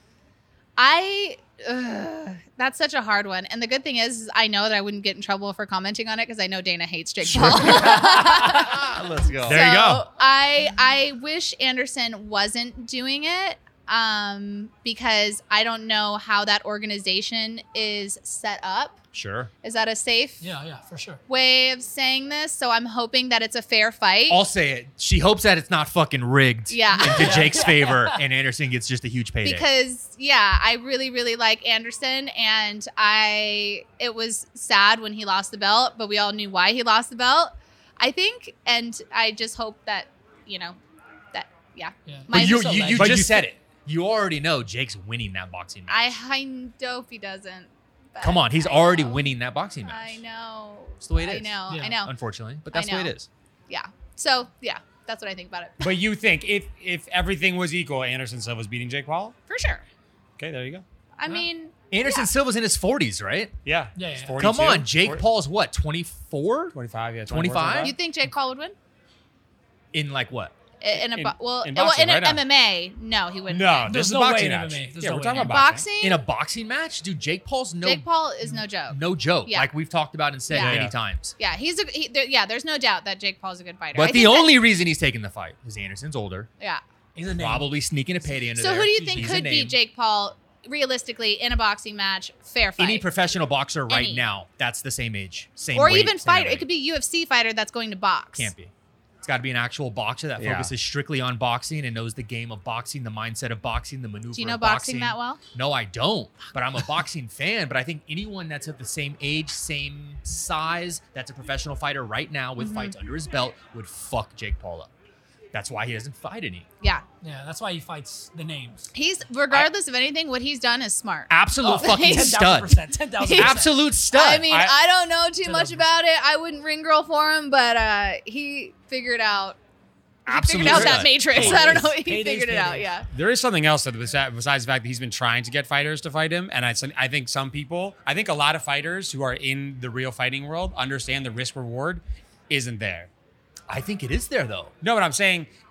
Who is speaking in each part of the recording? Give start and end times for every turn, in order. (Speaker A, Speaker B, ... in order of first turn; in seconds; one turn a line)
Speaker A: 0.8-8.9
Speaker B: 7.3-9.7
Speaker C: 9.4-10.1
Speaker A: 9.5-19.0
Speaker B: 19.1-19.5
Speaker A: 19.6-20.4
Speaker D: 20.4-21.2
Speaker A: 21.3-24.4
Speaker B: 24.3-29.7
Speaker A: 26.7-27.8
Speaker D: 26.9-28.2
Speaker A: 29.4-40.8
Speaker A: 41.3-43.2
Speaker D: 42.1-43.1
Speaker B: 42.3-46.1
Speaker C: 43.0-43.5
Speaker A: 45.9-49.3
Speaker B: 48.2-50.2
Speaker A: 49.8-52.1
Speaker B: 51.0-53.3
Speaker D: 51.7-52.0
Speaker A: 52.7-53.1
Speaker A: 53.7-55.9
Speaker C: 55.8-59.4
Speaker A: 59.5-59.8
Speaker C: 60.4-60.8
Speaker A: 61.2-62.3
Speaker B: 61.9-63.5
Speaker C: 63.6-65.2
Speaker D: 64.0-64.4
Speaker B: 64.4-66.8
Speaker C: 66.7-68.0
Speaker B: 67.3-68.0
Speaker A: 67.8-68.8
Speaker B: 69.9-70.5
Speaker A: 70.8-73.9
Speaker C: 70.9-72.4
Speaker C: 73.5-75.9
Speaker D: 73.9-75.6
Speaker A: 75.3-76.2
Speaker B: 76.0-78.1
Speaker A: 77.8-79.7
Speaker B: 78.9-81.3
Speaker A: 80.5-80.8
Speaker C: 80.5-81.0
Speaker A: 81.4-84.6
Speaker B: 83.9-86.5
Speaker D: 87.2-87.7
Speaker B: 87.3-89.8
Speaker A: 88.6-93.1
Speaker D: 89.0-89.4
Speaker B: 92.8-96.7
Speaker A: 93.9-94.2
Speaker A: 95.7-98.5
Speaker B: 98.4-114.9
Speaker C: 100.4-100.7
Speaker A: 104.3-105.4
Speaker A: 112.6-113.0
Speaker B: 115.5-116.7
Speaker D: 117.2-118.9
Speaker A: 118.9-122.4
Speaker B: 121.3-122.8
Speaker D: 121.6-123.8
Speaker A: 123.2-129.6
Speaker B: 123.3-124.5
Speaker C: 124.5-124.8
Speaker D: 125.5-125.9
Speaker B: 130.3-131.8
Speaker A: 130.3-133.1
Speaker C: 130.6-131.1
Speaker D: 131.2-133.0
Speaker C: 133.1-143.1
Speaker B: 143.7-144.7
Speaker C: 144.8-145.5